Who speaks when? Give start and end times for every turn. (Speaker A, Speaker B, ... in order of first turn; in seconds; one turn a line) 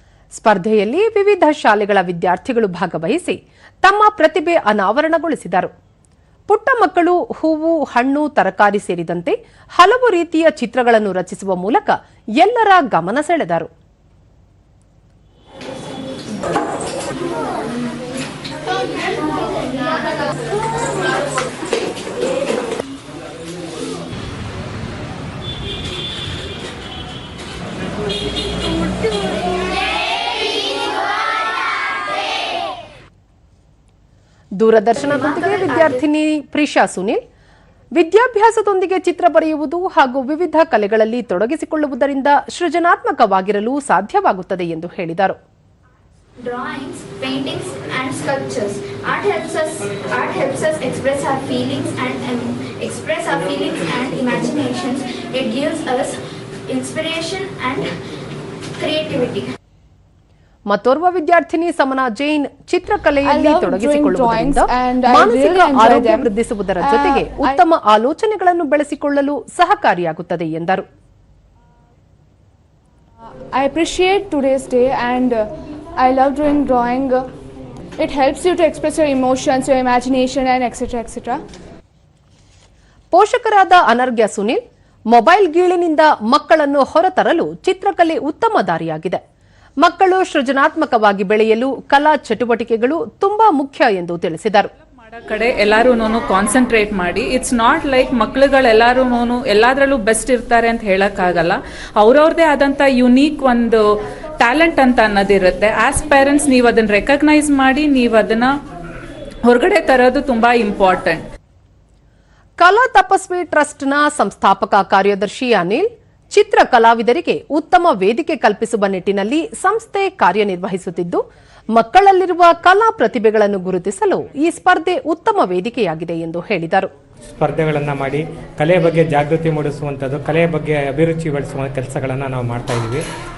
Speaker A: 0.4-5.7
Speaker A: 6.5-13.7
Speaker A: 34.6-37.2
Speaker B: 35.1-36.0
Speaker A: 38.0-45.4
Speaker B: 46.4-57.9
Speaker B: 58.8-59.5
Speaker A: 60.7-70.9
Speaker C: 63.2-67.6
Speaker C: 73.5-75.5
Speaker C: 76.0-77.2
Speaker C: 78.0-81.4
Speaker A: 83.1-89.2
Speaker A: 89.8-94.7
Speaker D: 95.0-103.9
Speaker D: 104.4-108.5
Speaker D: 109.5-111.2
Speaker A: 112.6-121.2
Speaker A: 121.8-126.9
Speaker E: 127.4-133.0